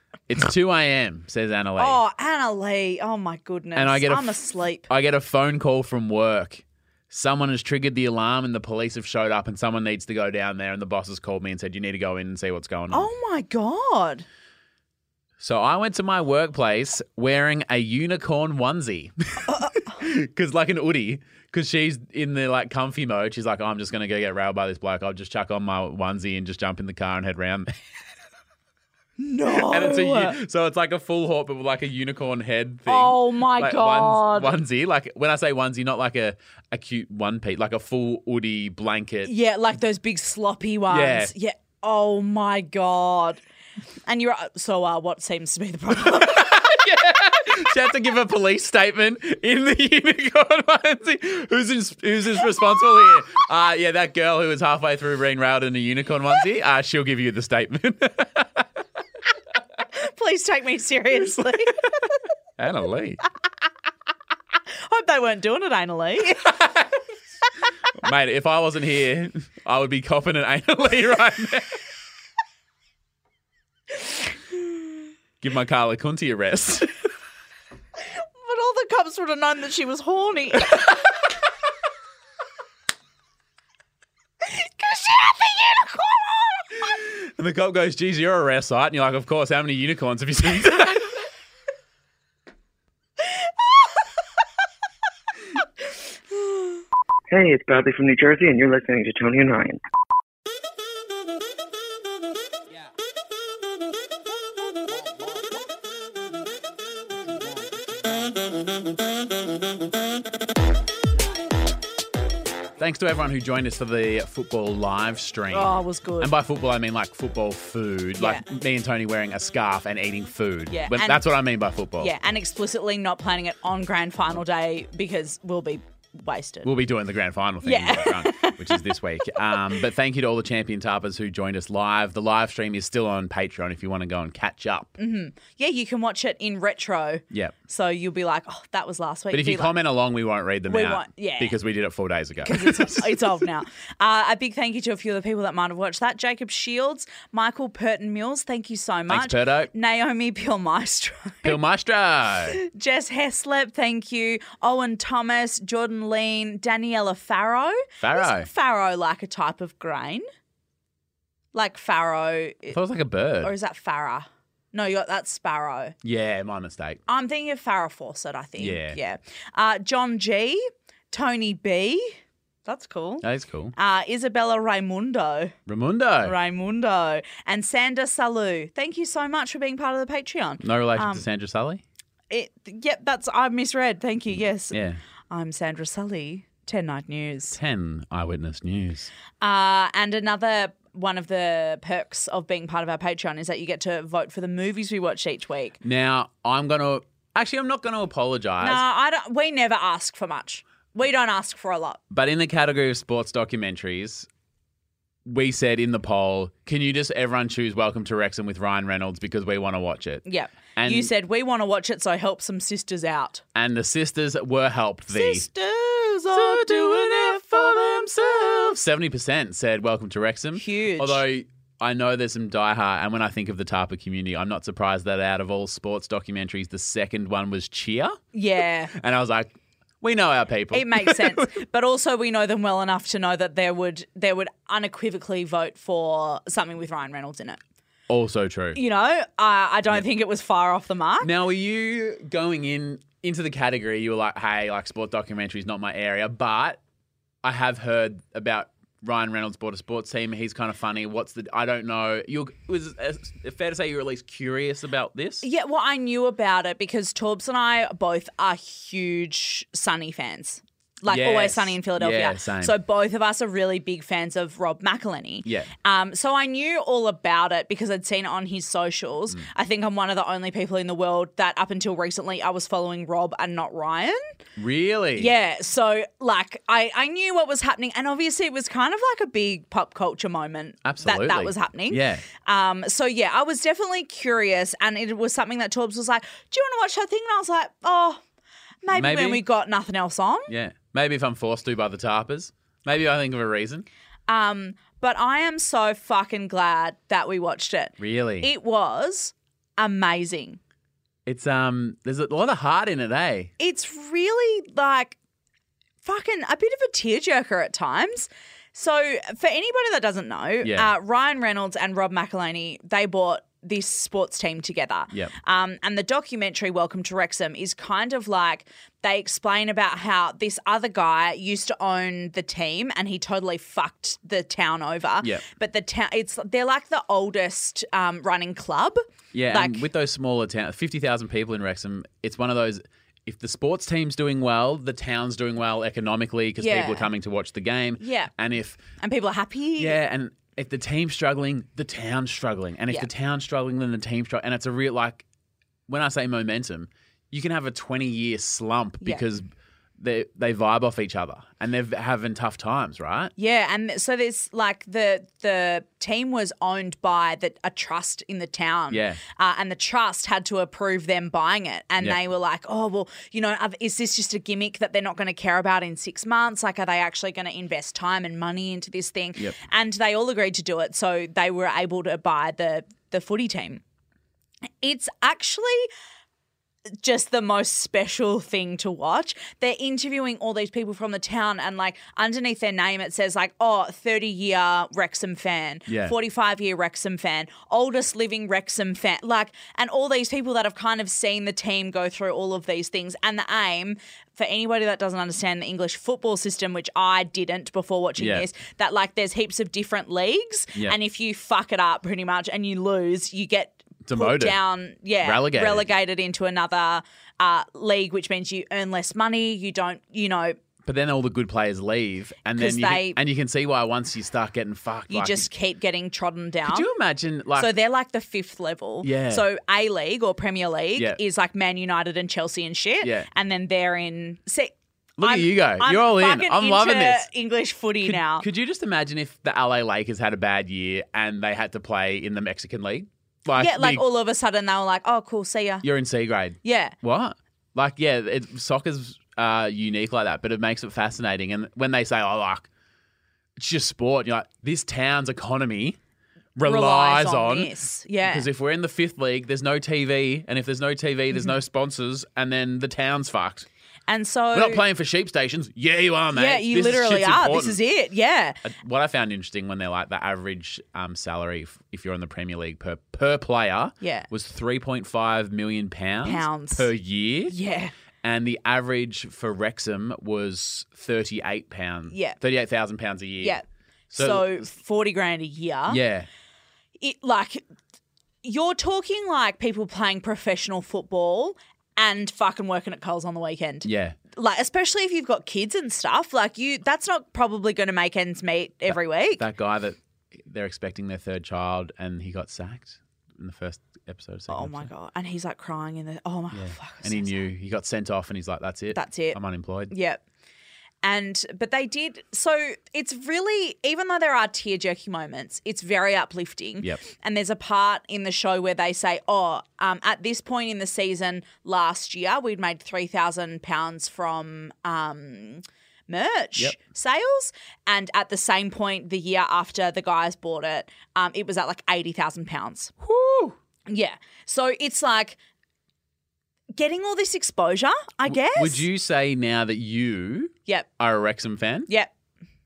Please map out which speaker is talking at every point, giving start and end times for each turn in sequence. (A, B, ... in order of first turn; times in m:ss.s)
0:00.3-0:02.0 A
0:01.8-0:04.9 B
0:03.8-0:13.1 A
0:12.9-0:14.3 B
0:15.4-0:27.7 A
0:19.5-0:19.8 B
0:29.2-0:30.4 B
0:29.5-0:39.3 A
0:32.9-0:34.6 B
0:39.2-0:43.4 B
0:40.9-0:41.3 A
0:44.1-0:46.7 B
0:46.0-0:58.6 A
0:59.9-1:01.9 B
1:01.4-1:01.9 A
1:02.6-1:03.2 A
1:04.7-1:06.5 B
1:06.4-1:06.9 A
1:07.9-1:11.8 A
1:14.1-1:14.6 B
1:15.4-1:16.9 A
1:18.0-1:20.9 B
1:24.4-1:26.8 B
1:26.8-1:31.1 A
1:33.2-1:34.1 B
1:37.3-1:39.8 C
1:52.8-2:02.1 A
1:55.5-1:56.3 B
1:58.2-1:58.5 B
2:00.7-2:01.3 B
2:02.0-2:06.7 B
2:06.6-2:15.0 A
2:07.6-2:09.8 B
2:15.0-2:19.7 B
2:17.3-2:17.6 A
2:19.3-2:23.4 A
2:20.7-2:21.6 B
2:22.4-2:31.6 B
2:29.1-2:29.7 A
2:31.4-2:32.6 A
2:32.5-2:40.2 B
2:38.0-2:38.5 A
2:41.5-2:42.8 B
2:42.7-2:43.5 A
2:43.4-2:46.0 B
2:46.0-2:47.0 A
2:47.1-2:53.2 B
2:48.6-2:49.0 A
2:53.2-2:53.8 A
2:53.8-2:55.6 B
2:55.7-2:56.4 A
2:56.2-3:01.3 B
3:00.6-3:01.8 A
3:02.3-3:04.8 B
3:04.7-3:05.0 A
3:05.3-3:07.6 B
3:07.5-3:09.1 A
3:09.4-3:15.8 B
3:15.8-3:18.8 A
3:18.6-3:22.0 B
3:22.1-3:24.3 A
3:25.3-3:30.2 A
3:30.2-3:33.4 B
3:30.8-3:31.1 A
3:33.6-3:35.5 A
3:35.1-3:38.8 B
3:36.3-3:48.2 A
3:40.6-3:41.2 B
3:48.3-3:48.9 B
3:48.9-3:49.5 A
3:50.0-3:51.6 A
3:50.7-3:57.6 B
3:58.1-3:58.8 A
3:58.8-4:01.3 B
4:01.2-4:06.8 A
4:07.4-4:15.4 A
4:15.4-4:34.2 B
4:21.1-4:22.8 A
4:25.4-4:25.7 A
4:34.6-4:35.3 A
4:35.2-4:48.2 B
4:40.8-4:42.2 A
4:48.8-4:50.5 B
4:48.9-4:49.4 A
4:50.5-4:53.9 A
4:54.3-5:00.6 B
4:58.0-4:58.5 A
5:01.3-5:03.5 A
5:03.6-5:05.2 B
5:06.0-5:29.0 B
5:10.6-5:10.9 A
5:29.3-5:38.8 A
5:29.5-5:29.8 B
5:36.6-5:37.1 B
5:38.0-5:38.3 B
5:39.0-5:40.0 B
5:39.8-5:45.2 A
5:45.9-5:49.5 A
5:50.0-5:53.3 A
5:53.4-6:13.8 B
5:58.9-5:59.2 A
6:14.8-6:15.9 B
6:17.0-6:50.6 B
6:25.9-6:26.2 A
6:38.2-6:38.5 A
6:44.0-6:44.6 A
6:45.2-6:45.9 A
6:50.8-6:55.5 A
6:52.6-6:53.2 B
6:55.1-6:56.9 B
6:56.6-6:57.7 A
6:57.6-7:08.5 B
6:59.0-6:59.5 A
7:03.0-7:03.3 A
7:05.2-7:07.3 A
7:08.0-7:14.0 A
7:13.6-7:15.8 B
7:15.8-7:22.7 A
7:16.6-7:17.0 B
7:23.6-7:26.0 A
7:26.6-7:27.7 A
7:26.6-7:28.5 B
7:28.2-7:33.7 A
7:34.1-7:34.8 B
7:34.5-7:37.8 A
7:36.3-7:38.6 B
7:38.6-7:47.6 A
7:44.0-7:44.3 B
7:46.2-7:46.9 B
7:47.5-7:47.9 B
7:48.2-7:53.6 A
7:52.1-7:52.4 B
7:53.4-7:56.0 B
7:54.1-7:54.7 A
7:55.9-7:56.3 A
7:57.0-7:57.6 B
7:58.4-8:09.4 B
8:03.8-8:04.2 A
8:08.9-8:14.9 A
8:14.5-8:17.4 B
8:16.5-8:19.9 A
8:18.9-8:19.4 B
8:19.9-8:20.2 B
8:21.0-8:42.9 B
8:43.0-8:43.6 A
8:43.9-8:45.4 B
8:46.8-8:48.9 B
8:48.3-8:51.9 A